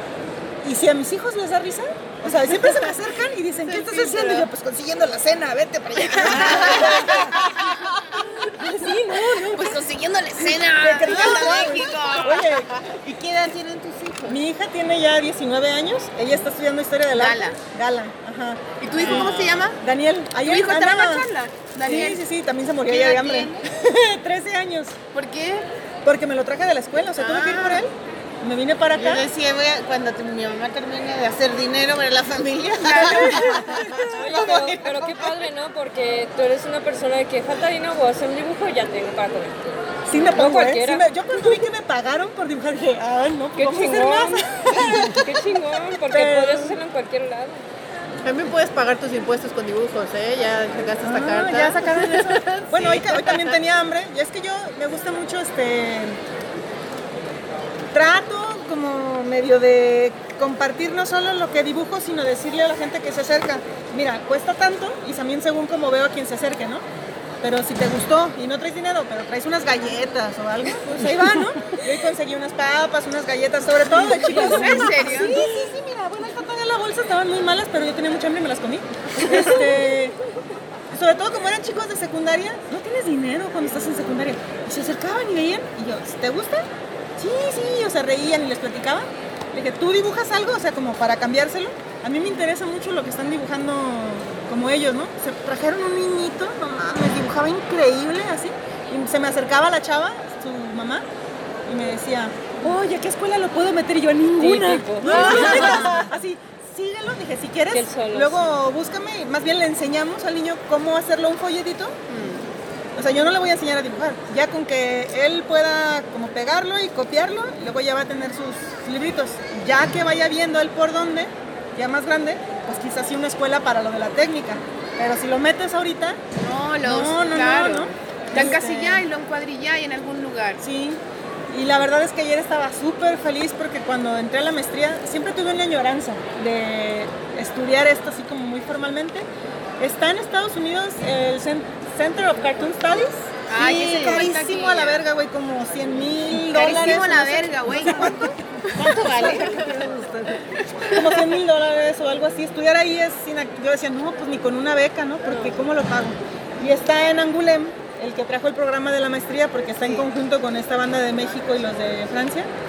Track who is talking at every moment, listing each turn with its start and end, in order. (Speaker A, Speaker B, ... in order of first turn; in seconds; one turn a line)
Speaker A: 0.6-9.8
Speaker B: 6.2-7.0
Speaker C: 6.3-7.0
Speaker C: 9.6-12.6
Speaker A: 10.4-12.7
Speaker B: 11.1-11.8
Speaker B: 13.0-14.4
Speaker A: 14.3-21.3
Speaker C: 17.1-17.6
Speaker C: 18.8-19.8
Speaker D: 18.9-19.5
Speaker C: 20.4-22.2
Speaker A: 21.8-25.0
Speaker C: 22.9-23.6
Speaker C: 25.1-25.7
Speaker A: 26.0-27.9
Speaker C: 27.2-27.8
Speaker A: 28.4-29.3
Speaker B: 28.9-35.0
Speaker A: 32.9-34.6
Speaker E: 34.1-41.1
Speaker A: 40.1-45.2
Speaker E: 43.6-47.6
Speaker A: 46.1-46.8
Speaker D: 48.2-53.6
Speaker A: 51.0-56.2
Speaker A: 57.9-66.8
Speaker A: 67.4-80.2
Speaker C: 74.2-75.4
Speaker D: 74.5-75.3
Speaker A: 80.9-101.0
Speaker A: 101.7-112.0
Speaker E: 104.4-105.9
Speaker E: 107.7-108.5
Speaker D: 112.1-112.4
Speaker A: 113.0-126.2
Speaker C: 126.4-130.6
Speaker A: 126.8-129.1
Speaker A: 130.6-139.3
Speaker A: 139.8-148.3
Speaker C: 143.5-144.8
Speaker B: 143.6-144.4
Speaker D: 144.3-144.9
Speaker C: 146.5-148.3
Speaker B: 146.5-148.2
Speaker B: 148.8-149.6
Speaker A: 149.0-162.5